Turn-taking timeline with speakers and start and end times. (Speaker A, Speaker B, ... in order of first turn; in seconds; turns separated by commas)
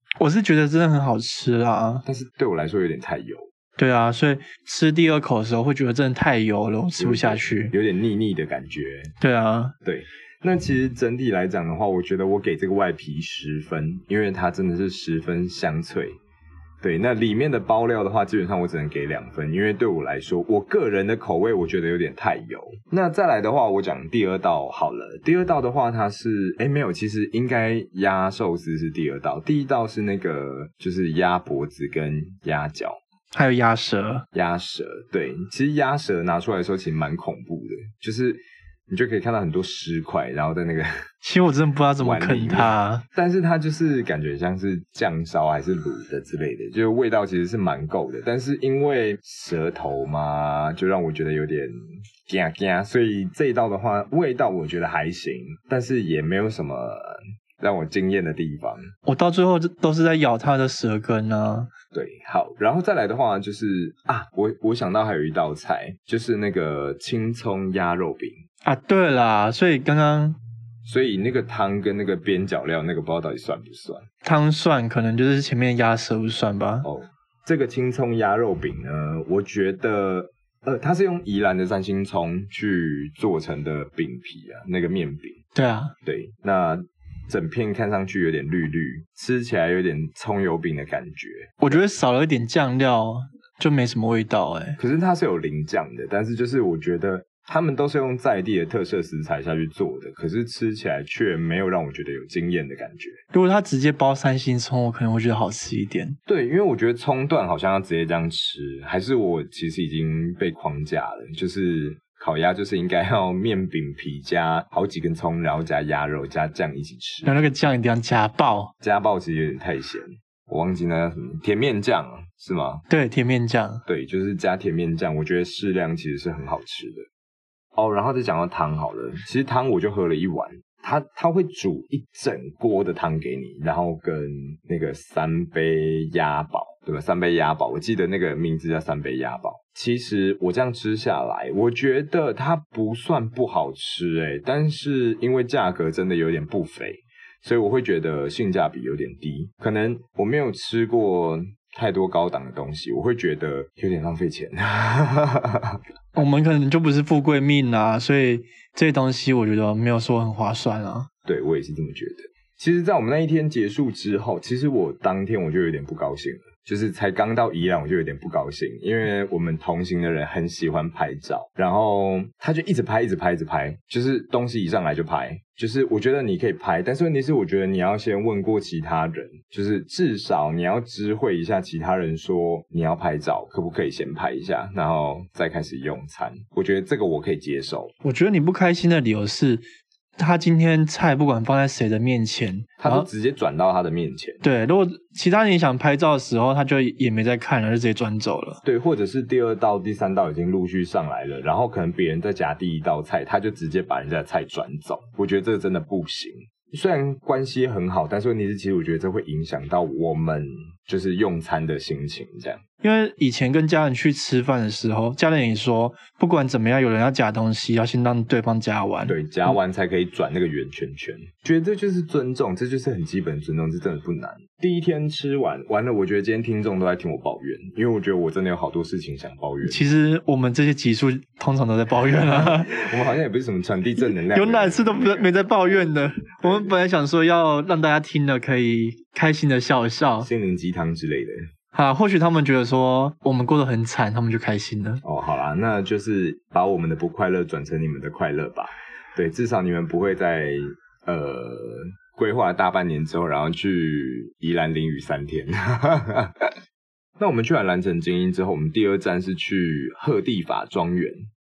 Speaker A: 0.2-2.0, Speaker B: 2.0-3.5, Speaker A: 3.8-7.7, Speaker B: 7.0-9.1, Speaker A: 9.2-9.8, Speaker B: 9.8-16.1, Speaker B: 16.8-33.0, Speaker A: 33.3-34.2, Speaker B: 34.3-41.0, Speaker A: 41.2-43.0, Speaker B: 42.0-51.7, Speaker B: 52.2-58.9, Speaker A: 59.0-61.7, Speaker B: 61.9-68.3, Speaker A: 68.6-70.4, Speaker B: 70.8-74.1, Speaker A: 74.2-76.9, Speaker B: 76.8-85.4, Speaker A: 85.5-85.9, Speaker B: 86.0-91.8, Speaker A: 91.6-94.8, Speaker B: 94.8-103.2, Speaker A: 103.3-106.2, Speaker B: 106.3-117.5, Speaker A: 117.2-118.7, Speaker B: 118.8-122.8, Speaker A: 122.9-123.8, Speaker B: 123.9-127.1, Speaker B: 127.8-155.8, Speaker A: 156.2-161.1, Speaker B: 161.3-187.9, Speaker A: 188.0-189.7, Speaker A: 190.2-193.1, Speaker B: 192.8-194.4, Speaker A: 194.4-198.6, Speaker B: 198.6-212.6, Speaker A: 212.8-219.5, Speaker B: 219.1-229.8, Speaker A: 229.6-232.8, Speaker B: 232.1-236.8, Speaker A: 234.3-240.3, Speaker B: 240.2-241.4, Speaker A: 241.7-245.0, Speaker B: 245.0-256.5, Speaker B: 257.2-261.2